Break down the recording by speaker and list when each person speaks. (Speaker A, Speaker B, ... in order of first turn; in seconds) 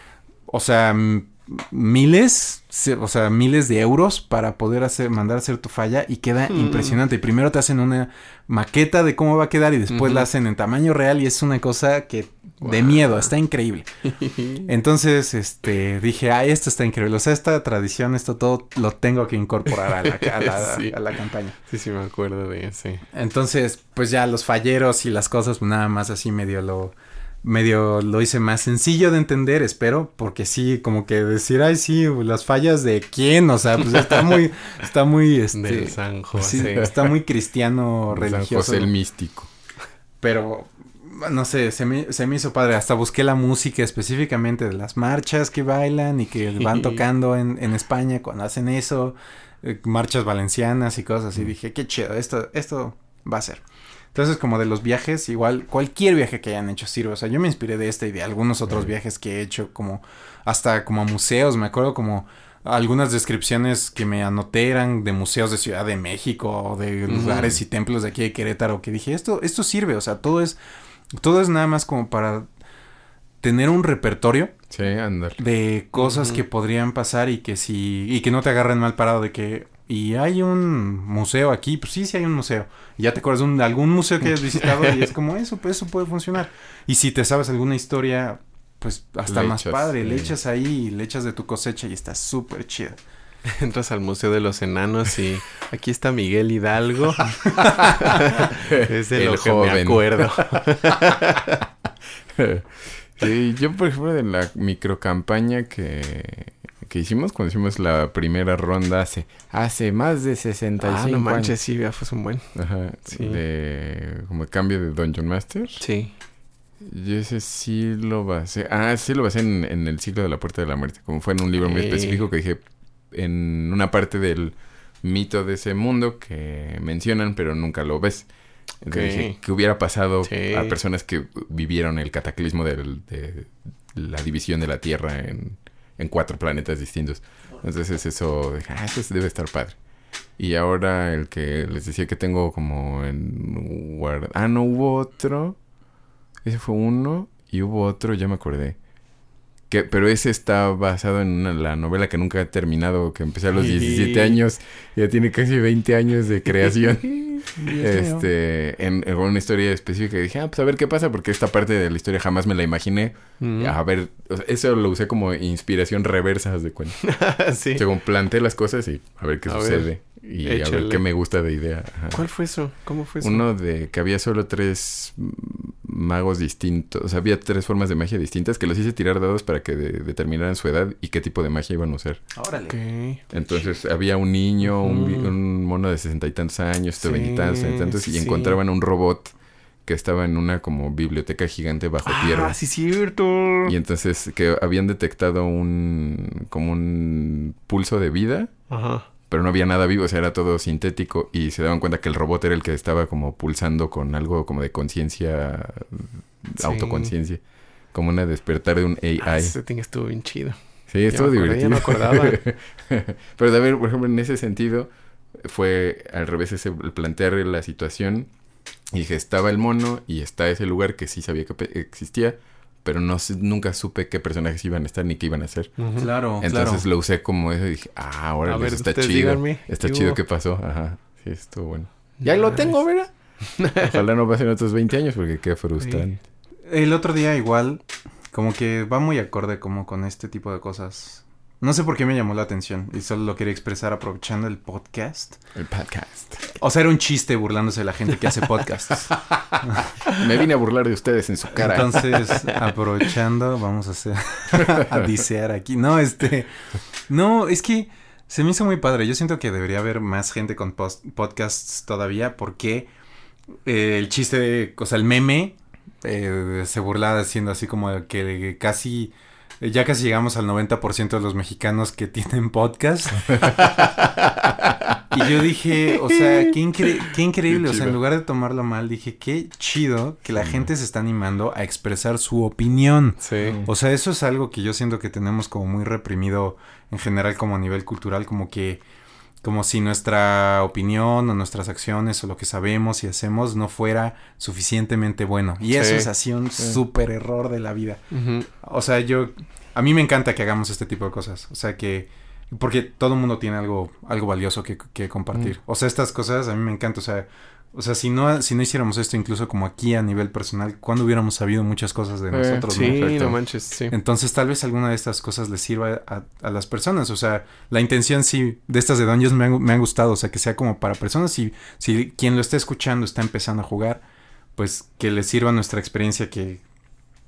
Speaker A: 0.5-13.9, 14.6-21.6, 23.1-38.9, 40.2-53.6, 54.1-70.6, 71.2-72.5, 73.4-74.5, 75.4-93.0, 97.5-97.9, 157.6-158.2, 182.3-182.8, 226.0-226.8, 236.7-245.4, 246.6-249.2, 251.6-256.5, 257.1-262.9, 263.6-273.5, 275.1-288.8, 289.4-298.0, 298.6-313.4, 313.9-324.0, 324.6-326.6
Speaker B: 6.5-7.0, 9.9-10.3, 12.6-13.3, 14.1-14.7, 19.9-21.0, 21.7-23.1, 33.9-34.3, 35.5-37.0, 46.6-47.0, 67.1-67.6, 76.0-76.4, 93.5-97.4, 98.0-101.6, 110.8-112.6, 113.1-113.4, 115.8-116.1, 121.6-122.2, 128.8-129.4, 130.2-130.8, 153.6-154.4, 163.4-163.8, 167.0-167.8, 169.5-171.0, 172.1-173.4, 182.7-183.7, 184.7-185.3, 187.0-188.6, 192.1-193.7, 198.7-199.1, 206.6-207.1, 209.2-210.6, 211.1-212.4, 225.8-226.1, 228.5-230.2, 232.2-232.8, 233.5-234.0, 235.8-236.1, 275.9-278.0, 283.2-283.6, 295.7-296.1, 298.1-298.5, 312.7-314.0
Speaker C: 38.1-39.5, 74.7-75.4, 89.3-90.3, 97.8-100.6, 102.4-111.6, 112.5-115.8, 116.8-128.3, 128.8-139.8, 140.4-145.6, 146.4-148.8, 149.7-167.2, 167.7-172.3, 173.2-182.2, 183.3-189.3, 189.8-192.6, 193.7-198.6, 199.3-209.6, 210.9-218.3, 218.9-225.8, 226.4-233.1, 233.7-236.2, 245.6-246.6, 250.1-252.4, 273.3-274.1, 280.4-280.7, 283.4-283.7, 312.3-313.4